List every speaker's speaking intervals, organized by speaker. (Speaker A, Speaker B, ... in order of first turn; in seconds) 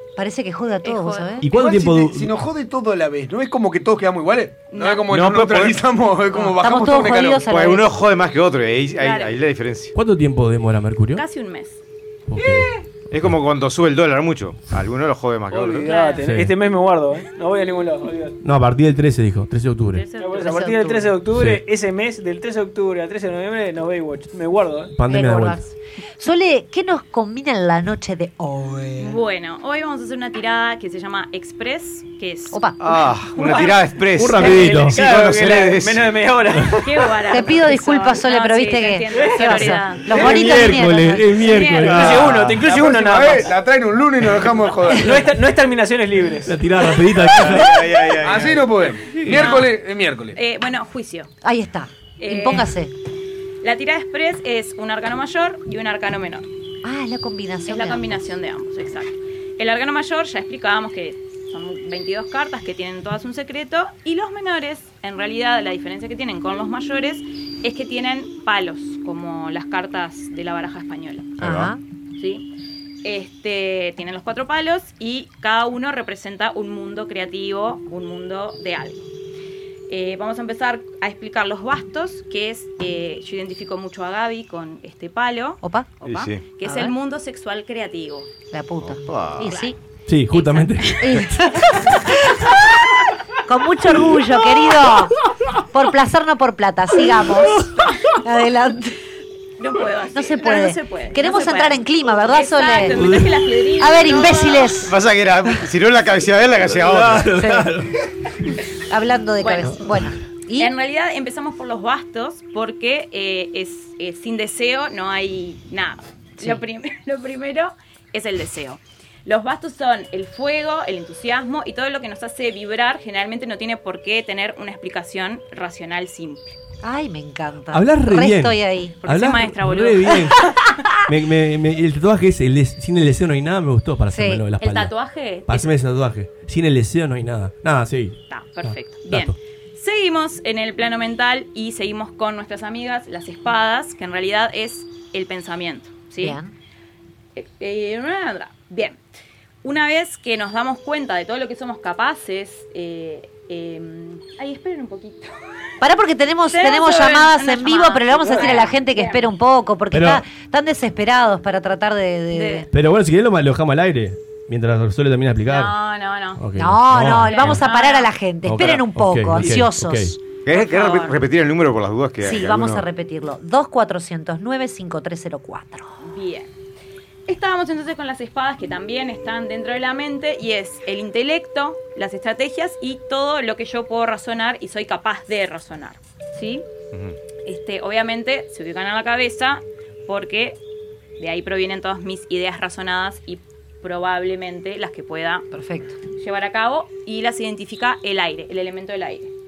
Speaker A: 0.2-1.4, 6.3-7.9, 20.4-21.1, 25.1-28.9, 32.5-32.8, 37.3-41.5, 51.4-52.9, 56.8-58.3, 71.4-71.8, 85.6-85.9, 86.6-86.9, 88.5-89.8, 90.8-92.6, 93.5-95.1, 95.7-99.0, 100.1-103.0, 103.8-104.9, 107.4-107.7, 108.9-110.7, 126.8-129.0, 130.4-130.7, 134.1-134.4, 146.2-146.5, 155.8-162.7, 166.6-170.2, 172.2-175.9, 195.5-196.0
Speaker B: 0.8-1.4, 4.7-5.0, 9.0-9.4, 11.2-11.8, 15.9-16.2, 19.9-20.7, 29.0-32.7, 33.4-33.8, 36.8-40.2, 41.4-42.0, 49.3-49.7, 50.3-51.3, 52.2-52.7, 53.6-56.5, 57.7-71.4, 72.2-72.5, 73.0-79.0, 79.9-88.3, 90.3-90.9, 99.6-104.8, 109.4-109.8, 110.6-126.6, 129.0-130.3, 134.6-135.7, 138.3-146.4, 147.3-149.0, 149.6-155.3, 156.5-159.3, 162.3-162.7, 165.5-166.4, 167.1-168.1, 170.5-171.2, 176.0-176.5, 177.3-186.7, 187.5-190.6, 191.2-195.5, 196.2-199.3
Speaker C: 1.4-2.3, 9.9-11.2, 12.3-12.7, 16.2-16.5, 18.4-20.1, 21.3-21.6, 24.9-25.6, 34.2-35.0, 40.0-42.6, 46.5-47.8, 49.2-49.6, 90.1-91.2, 102.9-103.3, 106.7-107.9, 127.7-130.5, 131.1-134.9, 135.5-139.4, 159.9-160.2, 162.7-165.8, 166.4-167.7, 168.4-170.2
Speaker D: 1.5-7.5, 42.6-45.2, 48.2-50.4
Speaker E: 5.1-5.8, 7.5-9.9, 13.1-15.9, 32.8-36.1, 47.2-48.7, 71.4-71.7, 86.0-86.5, 88.8-89.6, 104.8-107.4, 170.5-172.8
Speaker F: 15.5-18.4, 20.2-24.9, 34.3-37.1, 39.1-40.7, 41.8-43.5, 44.9-46.6